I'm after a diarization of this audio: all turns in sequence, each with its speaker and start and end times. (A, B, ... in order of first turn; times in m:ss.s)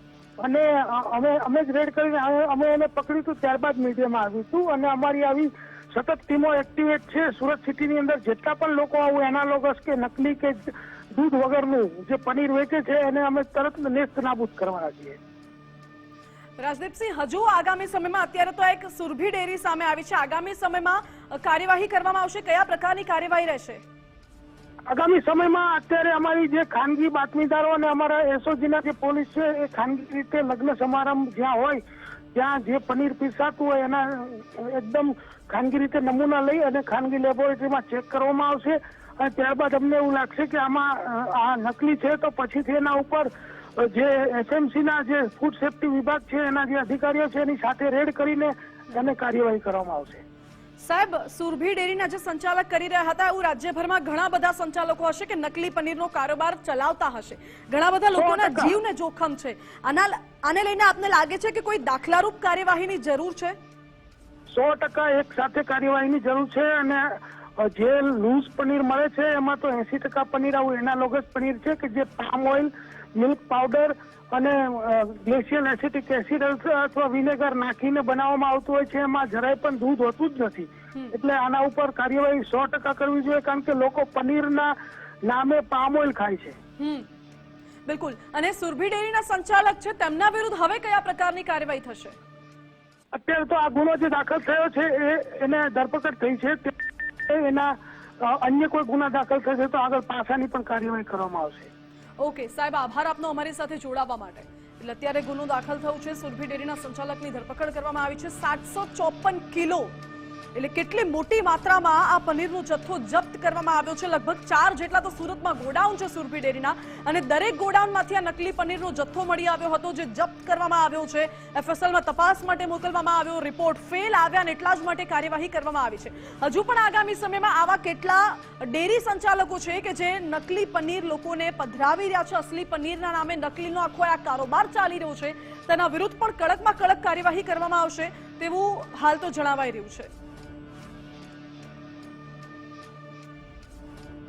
0:00.4-0:15.2 A
0:16.6-0:23.8 B
0:24.9-0:31.8 A
0:32.4-0:43.3 A
0:43.8-0:50.2 A
0:50.8-1:03.6 B
0:58.1-0:58.8 A
1:04.5-1:24.8 A
1:25.3-1:26.6 A
1:26.8-1:27.1 B
1:27.9-1:32.2 B
1:33.1-1:41.7 A
1:42.2-1:49.9 B
1:50.6-2:20.1 B